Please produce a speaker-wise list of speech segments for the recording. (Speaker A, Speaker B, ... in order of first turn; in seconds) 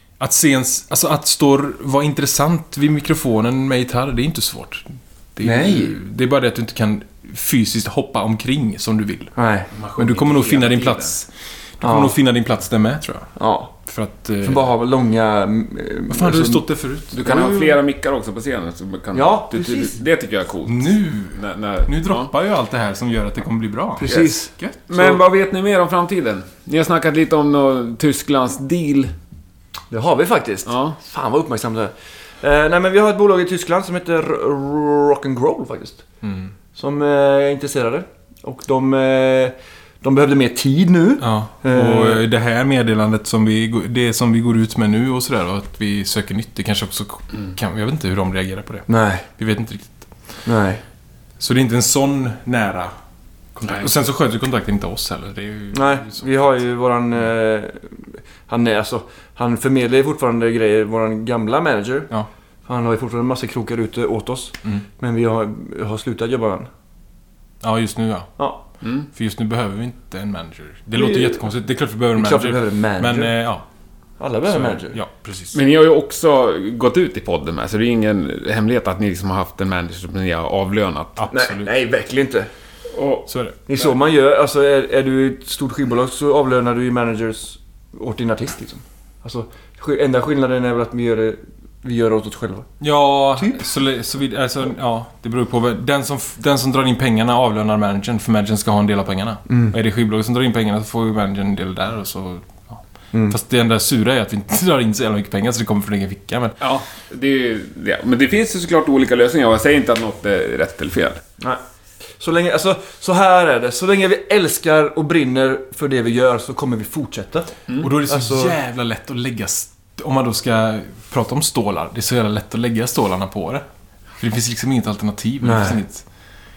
Speaker A: 0.2-9.3, 9.9-13.3, 13.9-14.7, 16.1-17.5, 20.6-24.8, 36.2-36.5, 41.2-50.1, 51.4-52.9, 53.5-56.6, 67.6-68.3, 69.1-73.6, 74.5-75.6, 81.2-81.7, 83.3-83.6, 92.8-106.6, 117.8-123.6, 124.2-126.0
Speaker B: 5.4-6.0, 9.4-10.0, 11.8-12.1, 13.4-13.7, 14.4-16.6, 17.2-17.6, 19.1-20.0, 24.0-25.2, 29.9-36.0, 36.7-42.2, 48.9-49.2, 50.5-50.8, 55.7-62.1, 62.6-66.7, 70.9-71.5, 72.1-73.3, 74.2-75.0, 81.3-82.5, 83.7-92.7, 99.5-99.7, 112.2-117.5, 118.0-118.6, 125.4-125.8
Speaker C: 9.8-11.1, 17.1-22.3, 24.9-29.1, 30.6-31.0, 68.8-69.1, 75.5-81.2, 82.9-83.3, 106.6-111.2